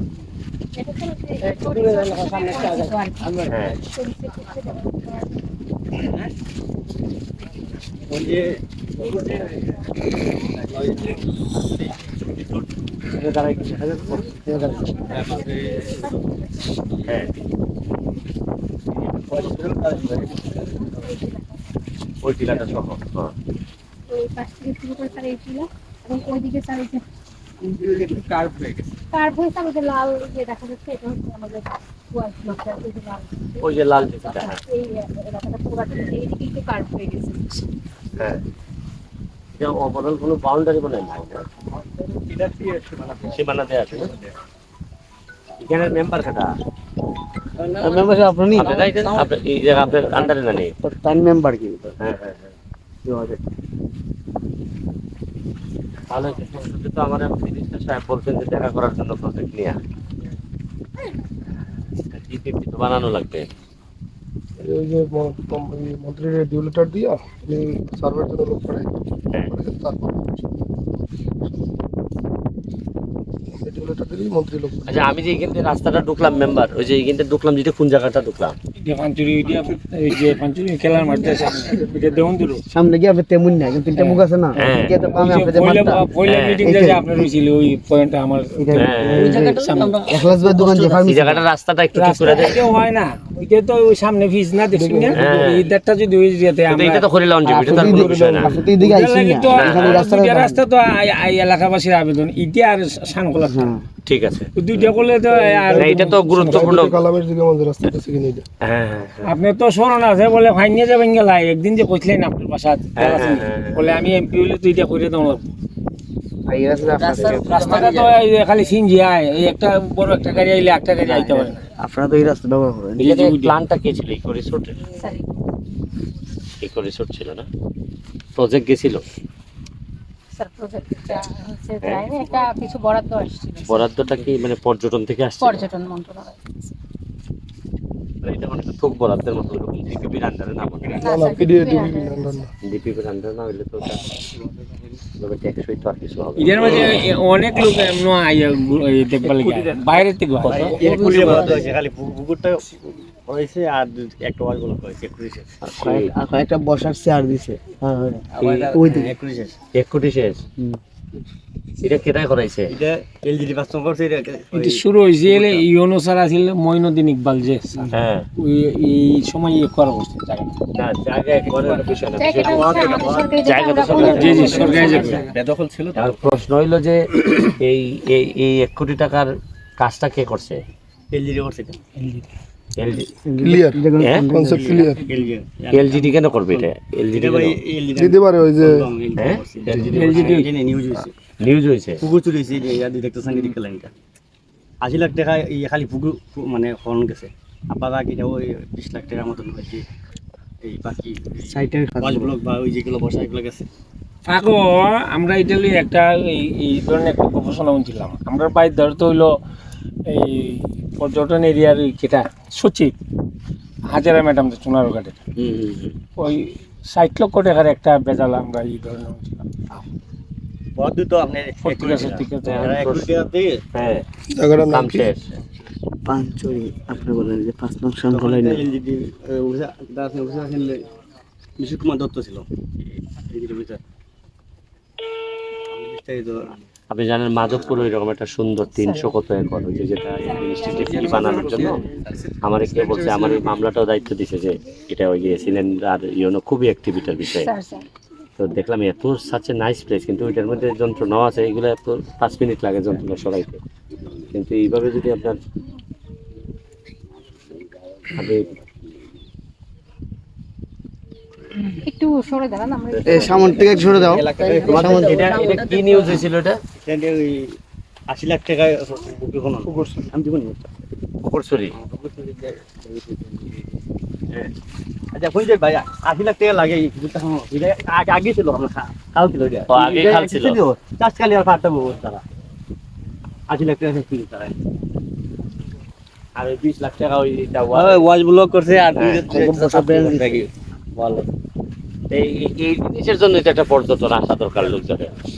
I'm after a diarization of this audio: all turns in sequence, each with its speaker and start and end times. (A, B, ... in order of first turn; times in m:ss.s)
0:00.8-0:05.1 A
0:01.6-0:02.9 B
0:03.5-0:03.8 C
0:08.1-0:09.5 D
0:10.5-0:12.4 D
0:13.2-0:14.4 C
0:14.5-0:15.1 E
0:15.1-0:16.1 D
0:15.2-0:16.2 A
0:19.2-0:20.6 D
0:20.7-0:21.4 A
0:22.2-0:23.3 C
0:24.1-0:27.0 A
0:27.8-0:28.8 D
0:28.1-0:28.4 F
0:29.1-0:37.6 A
0:33.6-0:34.6 C
0:39.6-0:41.4 C
0:42.4-0:43.1 F
0:42.5-0:43.0 D
0:43.2-0:44.2 C
0:45.6-0:46.5 C
0:47.7-0:48.9 E
0:48.5-0:50.8 C
0:49.9-0:50.3 E
0:50.8-0:52.0 E
0:52.0-0:52.5 C
0:53.0-0:53.4 E
0:56.1-0:59.8 C
1:02.1-1:03.5 C
1:04.6-1:08.9 G
1:09.5-1:10.3 G
1:13.5-1:15.1 G
1:14.9-1:18.6 C
1:18.8-1:22.6 B
1:22.7-1:26.0 E
1:24.0-1:24.2 B
1:24.6-1:25.0 C
1:25.0-1:30.3 B
1:26.3-1:26.6 C
1:26.6-1:27.3 E
1:28.6-1:31.4 E
1:28.8-1:29.5 C
1:30.5-1:32.6 C
1:31.9-1:37.1 B
1:34.7-1:35.3 G
1:35.1-1:35.7 C
1:36.7-1:38.6 C
1:37.4-1:40.6 E
1:37.6-1:38.5 G
1:38.7-1:43.7 B
1:39.5-1:40.0 C
1:43.5-1:43.8 E
1:44.1-1:45.0 C
1:44.6-1:46.8 B
1:45.3-1:48.5 G
1:45.7-1:47.0 C
1:48.6-1:49.3 C
1:49.2-1:55.5 B
1:53.0-1:54.2 C
1:56.5-1:57.9 E
1:57.0-1:58.1 C
1:57.1-2:01.6 B
2:01.0-2:03.2 E
2:03.0-2:04.7 C
2:03.1-2:03.5 B
2:04.9-2:05.4 A
2:06.6-2:07.5 C
2:08.4-2:09.0 C
2:10.3-2:14.1 A
2:13.7-2:15.7 C
2:15.4-2:16.7 A
2:18.2-2:21.1 C
2:20.9-2:22.4 A
2:21.0-2:22.5 G
2:22.7-2:24.2 C
2:24.6-2:24.8 D
2:25.2-2:27.0 C
2:26.4-2:30.8 B
2:29.3-2:29.8 D
2:30.4-2:35.6 D
2:30.4-2:30.8 C
2:30.7-2:31.5 F
2:30.9-2:31.6 E
2:35.6-2:36.2 C
2:35.8-2:39.2 E
2:38.3-2:39.6 D
2:39.7-2:40.4 C
2:41.8-2:42.7 C
2:42.7-2:45.6 D
2:44.6-2:50.5 B
2:47.9-2:48.3 C
2:50.8-2:52.9 C
2:52.2-2:55.2 A
2:52.3-2:53.3 D
2:53.4-2:55.1 C
2:53.8-2:54.7 D
2:54.0-2:55.3 B
2:54.2-2:56.2 F
2:56.0-3:00.6 C
3:01.1-3:02.0 D
3:02.8-3:03.1 C
3:03.2-3:04.7 E
3:03.4-3:05.0 G
3:04.0-3:04.3 C
3:04.4-3:11.1 D
3:05.7-3:07.6 C
3:08.0-3:08.9 G
3:09.2-3:10.4 C
3:09.9-3:10.5 B
3:11.4-3:12.0 C
3:12.0-3:13.9 D
3:14.8-3:19.8 D
3:20.6-3:23.7 D
3:21.5-3:22.4 E
3:24.3-3:29.4 B
3:30.1-3:33.0 B
3:33.9-3:35.2 B
3:35.4-3:36.0 C
3:36.2-3:39.8 B
3:40.8-3:43.6 D
3:41.6-3:42.8 B
3:42.5-3:44.0 C
3:44.3-3:45.1 G
3:44.6-3:45.3 C
3:46.1-3:48.7 E
3:48.1-3:50.8 D
3:51.6-3:53.8 D
3:55.7-3:56.4 D
3:56.9-4:01.8 C
4:00.3-4:01.2 A
4:02.4-4:07.5 C
4:07.3-4:07.9 A
4:08.4-4:13.6 C
4:14.3-4:15.4 C
4:18.1-4:18.5 C
4:21.6-4:24.1 A
4:22.9-4:23.6 C
4:23.0-4:25.4 E
4:23.8-4:25.6 D
4:24.5-4:26.6 C
4:26.8-4:27.6 D
4:28.1-4:30.6 D
4:31.2-4:31.7 C
4:31.8-4:33.4 D
4:35.1-4:42.2 D
4:39.7-4:40.6 C
4:43.5-4:44.6 D
4:46.4-4:48.1 C
4:47.7-4:51.2 D
4:49.0-4:49.4 C
4:49.3-4:50.4 E
4:52.1-4:55.1 C